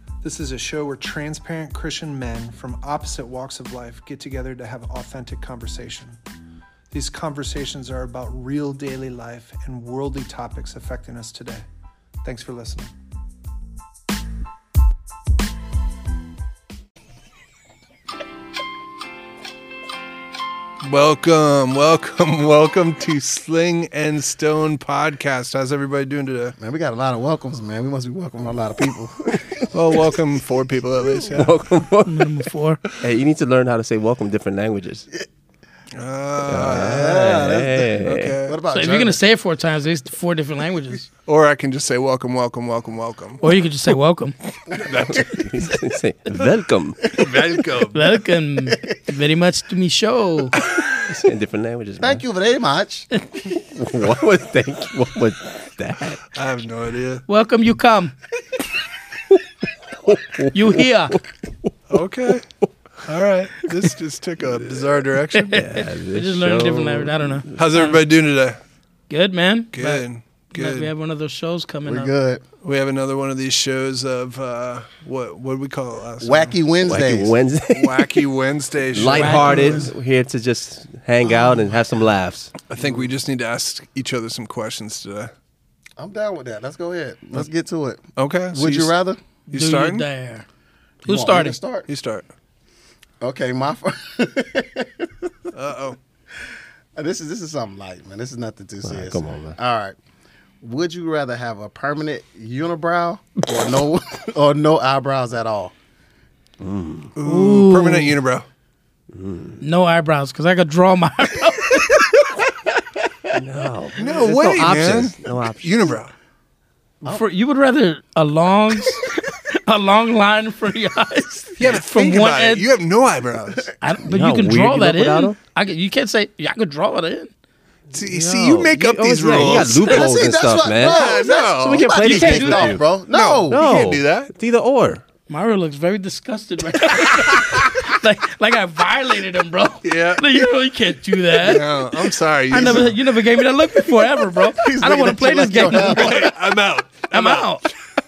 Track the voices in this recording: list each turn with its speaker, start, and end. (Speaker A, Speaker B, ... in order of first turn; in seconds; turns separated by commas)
Speaker A: 0.2-6.2, Speaker A: 6.9-11.6, Speaker A: 12.2-12.9, Speaker A: 20.8-26.5, Speaker B: 26.6-29.7, Speaker A: 29.7-31.5, Speaker C: 31.2-32.3, Speaker D: 32.0-32.8, Speaker C: 33.0-35.1, Speaker A: 35.9-37.2, Speaker C: 36.4-38.4, Speaker B: 36.7-39.2, Speaker A: 38.0-38.6, Speaker D: 38.7-41.1, Speaker A: 41.2-43.4, Speaker D: 43.4-44.4, Speaker A: 44.7-45.4, Speaker C: 45.0-47.2, Speaker A: 47.0-48.0, Speaker D: 47.9-50.6, Speaker C: 50.9-52.2, Speaker B: 52.0-53.1, Speaker C: 53.7-56.2, Speaker A: 56.3-57.2, Speaker D: 57.3-58.1, Speaker C: 60.0-60.8, Speaker D: 60.5-61.2, Speaker A: 61.9-62.5, Speaker A: 63.0-65.6, Speaker D: 65.4-68.0, Speaker C: 65.5-67.7, Speaker A: 67.5-68.6, Speaker D: 69.1-72.1, Speaker A: 69.7-70.9, Speaker B: 71.8-72.4, Speaker A: 72.6-76.5, Speaker B: 76.2-77.3, Speaker C: 76.8-78.3, Speaker A: 77.7-79.9, Speaker C: 78.9-82.5, Speaker D: 79.1-79.8, Speaker B: 79.5-79.9, Speaker A: 82.7-85.3, Speaker B: 86.0-89.2, Speaker A: 88.2-88.9, Speaker A: 89.5-90.1, Speaker D: 89.5-90.5, Speaker D: 91.0-91.6, Speaker B: 91.0-91.9, Speaker A: 91.9-92.3, Speaker B: 93.2-95.3, Speaker A: 95.5-96.0, Speaker B: 97.0-100.0, Speaker C: 98.8-99.6, Speaker B: 100.6-105.7, Speaker C: 106.6-107.1, Speaker A: 107.2-108.5, Speaker D: 107.2-108.2, Speaker C: 109.1-109.6, Speaker D: 109.6-112.0, Speaker C: 113.3-115.9, Speaker A: 114.0-116.1, Speaker D: 117.0-122.7, Speaker A: 121.6-123.7, Speaker D: 123.8-127.3, Speaker C: 124.1-125.3, Speaker A: 127.9-130.0, Speaker C: 128.1-132.8, Speaker B: 129.5-133.6, Speaker A: 130.9-131.9, Speaker D: 131.9-132.8, Speaker A: 133.1-134.3, Speaker C: 133.5-135.0, Speaker D: 135.3-141.7, Speaker A: 139.8-140.2, Speaker A: 141.4-142.9, Speaker D: 142.5-146.3, Speaker B: 142.5-142.9, Speaker B: 144.5-146.4, Speaker A: 145.7-147.6, Speaker D: 147.1-147.7